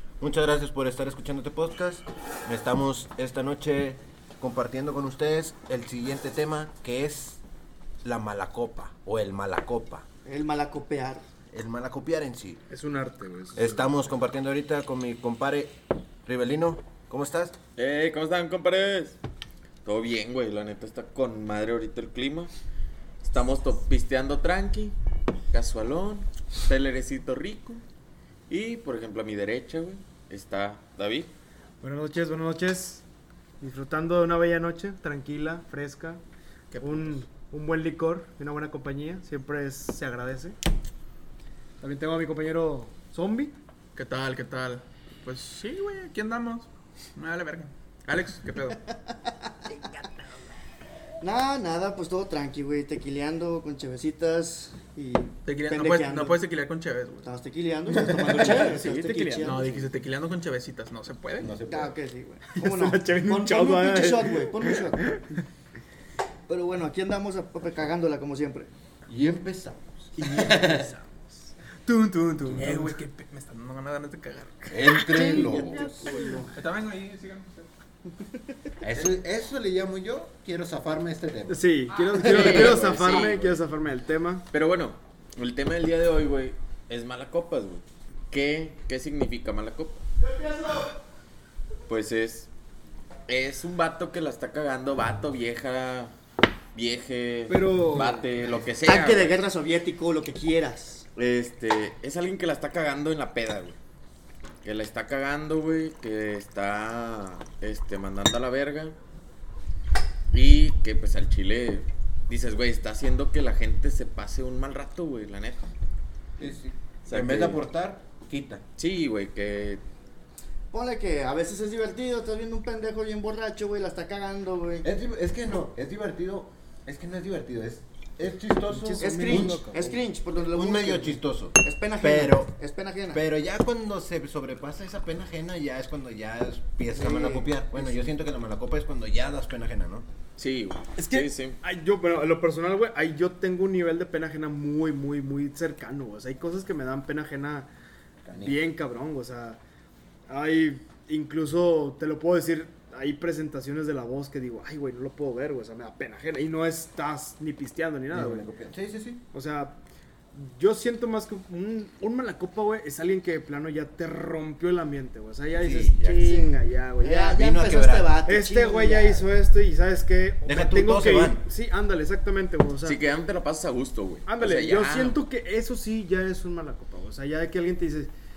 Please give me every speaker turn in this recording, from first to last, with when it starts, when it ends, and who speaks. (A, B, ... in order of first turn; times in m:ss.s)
0:00.2-0:07.4 A
0:08.0-0:10.0 A
0:10.2-0:11.2 B
0:11.5-0:12.6 A
0:12.7-0:13.9 C
0:13.6-0:15.7 A
0:16.2-0:17.6 A
0:17.8-0:19.2 D
0:19.8-0:22.5 D
0:23.2-0:24.9 D
0:25.5-0:27.8 D
0:28.5-0:31.3 D
0:31.8-0:33.0 C
0:33.6-0:36.2 C
0:36.7-0:37.2 E
0:36.8-0:40.6 C
0:41.8-0:43.5 C
0:44.0-0:48.8 E
0:51.2-0:56.4 B
0:55.4-0:57.3 E
0:57.2-0:59.9 B
0:58.2-0:59.6 C
0:59.4-1:01.6 E
1:01.4-1:01.9 A
1:01.7-1:05.1 B
1:02.5-1:04.7 C
1:06.5-1:08.7 B
1:09.1-1:10.9 A
1:10.2-1:13.0 C
1:12.6-1:15.4 E
1:14.7-1:16.1 A
1:14.9-1:16.4 C
1:16.0-1:17.6 E
1:16.2-1:16.4 B
1:18.8-1:23.0 A
1:21.5-1:24.4 C
1:22.2-1:23.5 D
1:24.5-1:30.0 D
1:31.9-1:32.5 D
1:33.3-1:36.1 D
1:36.7-1:39.4 D
1:37.5-1:38.2 C
1:38.8-1:41.1 B
1:41.2-1:43.8 D
1:44.6-1:48.9 D
1:50.3-1:55.7 D
1:56.4-1:58.6 A
1:57.1-1:57.6 D
1:58.8-1:59.8 D
2:00.7-2:04.8 B
2:04.8-2:09.6 A
2:08.7-2:10.0 C
2:09.0-2:13.2 B
2:10.4-2:12.5 A
2:13.1-2:20.0 A
2:17.0-2:17.5 B
2:20.4-2:21.6 D
2:21.0-2:27.7 C
2:28.2-2:28.5 A
2:28.4-2:29.6 C
2:30.3-2:38.5 C
2:38.1-2:39.2 A
2:39.3-2:39.8 C
2:40.3-2:47.4 C
2:45.5-2:46.4 A
2:47.0-2:49.2 B
2:47.3-2:48.1 A
2:48.3-2:53.0 C
2:50.4-2:51.4 A
2:52.8-2:55.2 D
2:54.2-2:58.1 C